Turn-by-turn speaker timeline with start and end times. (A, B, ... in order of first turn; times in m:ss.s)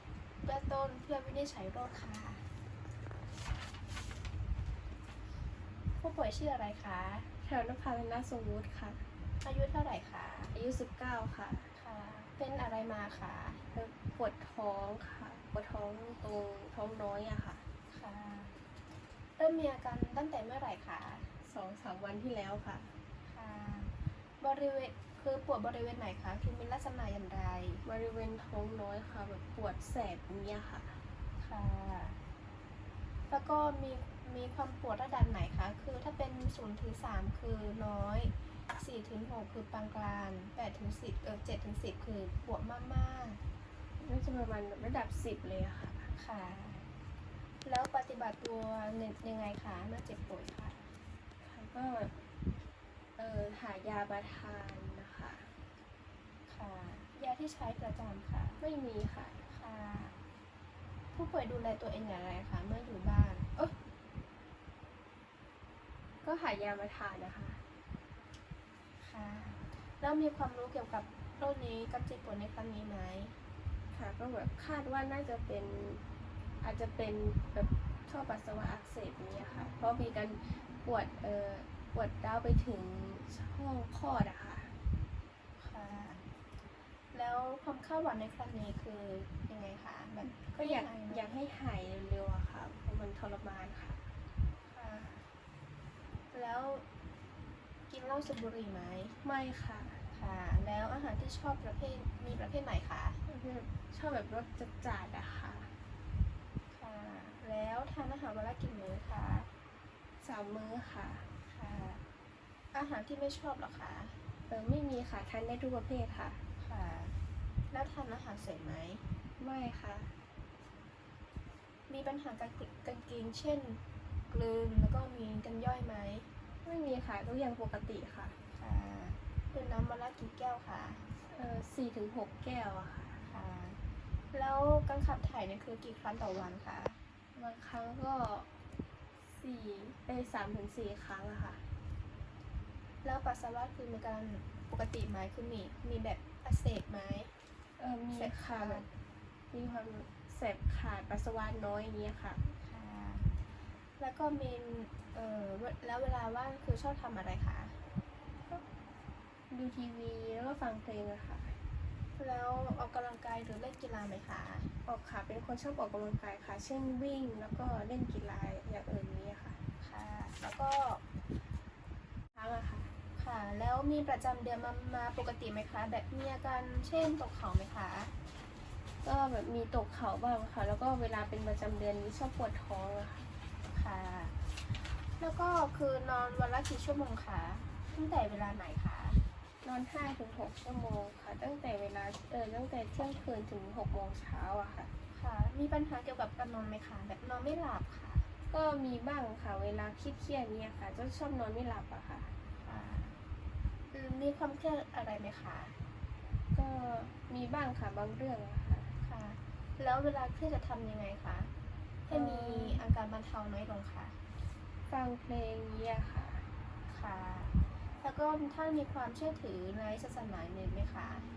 0:00.4-0:02.5 A
0:06.0-0:07.3 A
0:07.4-0:09.0 B
0:09.4-0:10.6 A
0:10.5-0:11.7 B
0:11.8-0:13.6 A
0:13.7-0:17.7 B
0:17.9-0:18.6 A
0:19.4-0:21.3 A
0:21.4-0:23.0 B
0:23.2-0:27.8 A
0:27.8-0:31.0 B
0:31.4-0:32.2 A
0:33.3-0:43.4 A
0:44.0-0:46.1 B
0:46.1-0:46.9 A
0:47.6-0:50.9 A
0:51.4-0:52.2 B
0:53.2-0:55.5 B
0:56.5-0:58.6 A
0:58.6-0:59.4 B
0:59.5-1:00.2 A
1:01.1-1:03.8 A
1:06.2-1:07.6 B
1:09.0-1:13.4 A
1:13.9-1:16.0 B
1:16.6-1:24.8 B
1:25.6-1:26.3 A
1:27.1-1:31.3 A
1:30.2-1:34.1 B
1:34.7-1:35.3 A
1:36.3-1:36.8 A
1:37.9-1:39.2 A
1:39.2-1:40.1 B
1:40.1-1:43.2 A
1:43.3-1:45.8 B
1:46.7-1:49.5 A
1:50.2-1:51.3 B
1:51.5-1:52.0 A
1:52.7-1:54.2 A
1:54.5-1:56.4 B
1:56.6-1:57.2 A
1:57.7-1:59.0 A
1:59.4-2:00.2 B
2:01.9-2:06.3 A
2:06.6-2:08.4 B
2:08.5-2:11.1 A
2:11.2-2:13.2 B
2:13.2-2:17.0 A
2:17.4-2:18.5 B
2:19.2-2:21.7 B
2:23.0-2:27.3 A
2:27.8-2:28.9 B
2:28.1-2:28.9 A
2:29.5-2:32.5 B
2:32.5-2:33.4 A
2:34.0-2:37.8 A
2:39.5-2:41.6 B
2:42.2-2:44.7 A
2:44.8-2:49.6 B
2:49.8-2:51.0 A
2:52.3-2:53.0 B
2:53.2-2:58.2 A
2:59.0-3:03.3 B
3:03.7-3:09.2 A
3:09.6-3:14.9 B
3:15.1-3:18.3 A
3:18.5-3:22.3 B
3:22.6-3:23.2 A
3:23.9-3:25.8 A
3:26.5-3:28.9 B
3:29.0-3:31.5 A
3:32.1-3:34.2 A
3:32.1-3:32.8 B
3:34.9-3:36.5 B
3:36.9-3:41.3 A